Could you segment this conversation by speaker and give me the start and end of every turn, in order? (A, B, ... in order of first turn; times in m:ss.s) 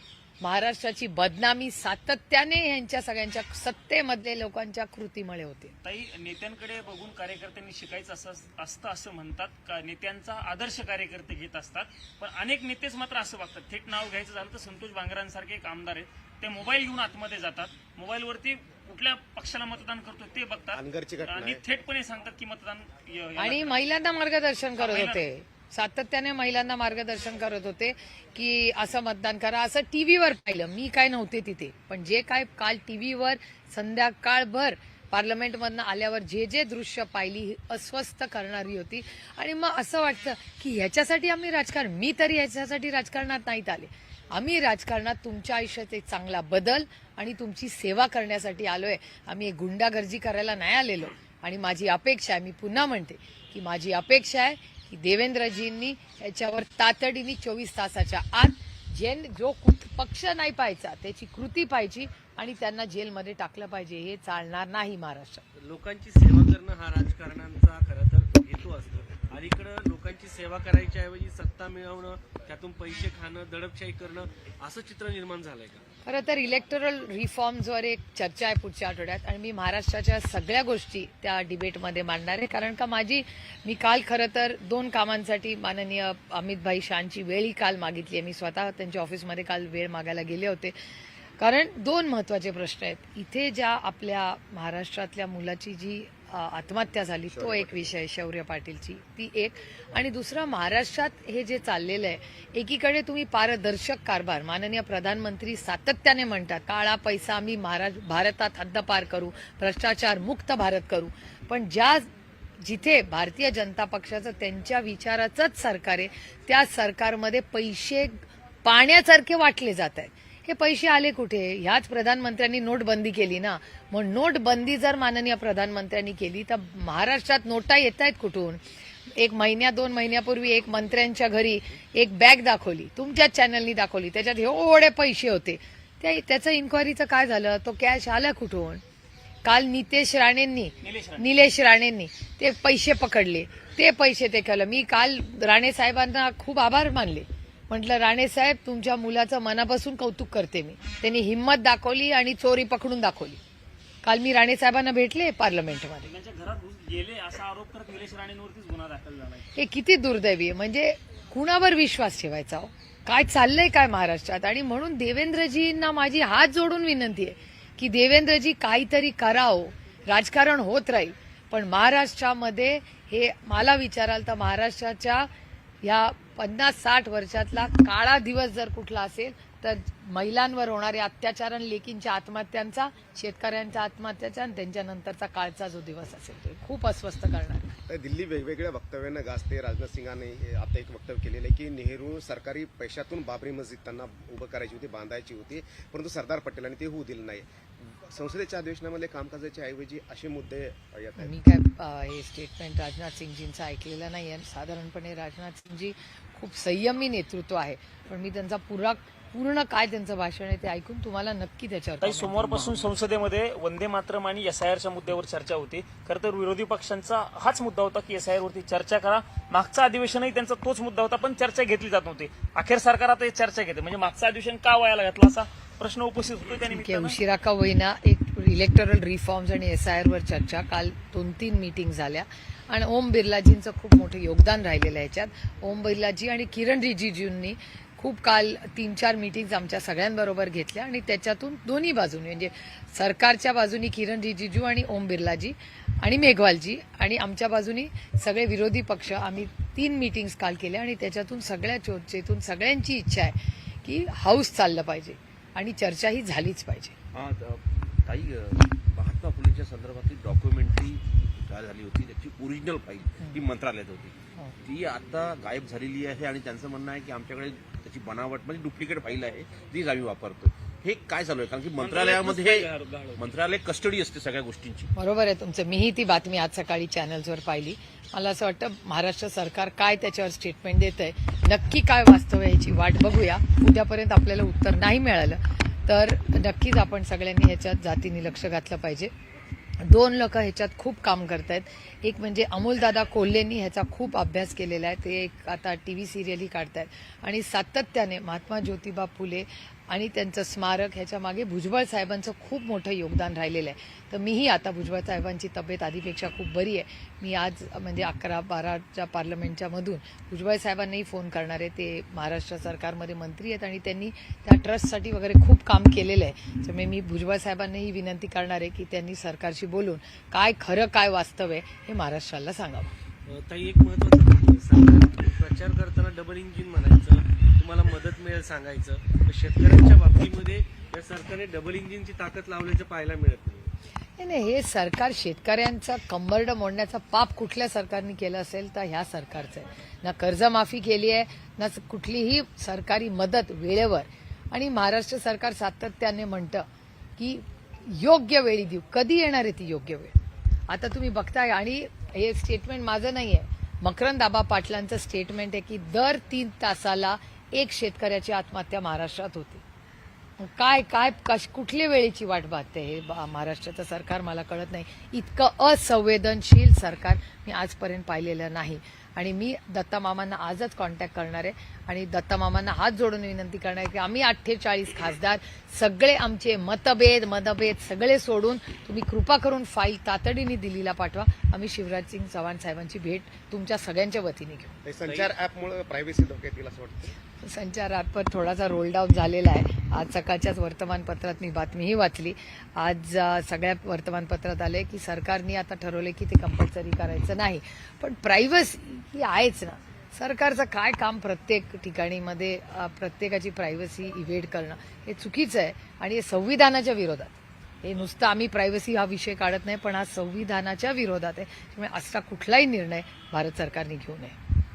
0:00.4-0:05.7 A
0:05.8-0:23.8 B
0:20.7-0:21.6 C
0:23.4-1:05.4 A
0:24.8-0:25.2 B
1:05.6-1:15.8 D
1:16.0-1:30.8 A
1:31.4-1:52.1 A
1:37.3-1:37.9 C
1:52.6-2:08.6 A
2:09.1-2:18.8 A
2:19.4-2:33.4 A
2:20.8-2:21.4 B
2:34.0-2:36.1 A
2:36.0-2:39.5 B
2:39.5-2:55.3 A
2:55.8-3:07.8 A
3:07.9-3:21.4 C
3:21.2-3:32.9 A
3:32.0-3:47.2 B
3:46.7-4:16.9 A
4:17.1-4:34.9 E
4:31.8-4:33.0 B
4:32.1-4:33.2 D
4:35.0-4:49.1 A
4:49.8-5:22.9 A
5:23.3-5:33.7 D
5:34.2-5:46.6 A
5:47.2-5:50.2 A
5:50.7-5:59.6 A
6:00.4-6:24.8 A
6:24.8-6:27.1 C
6:25.0-6:25.3 D
6:27.4-6:54.4 A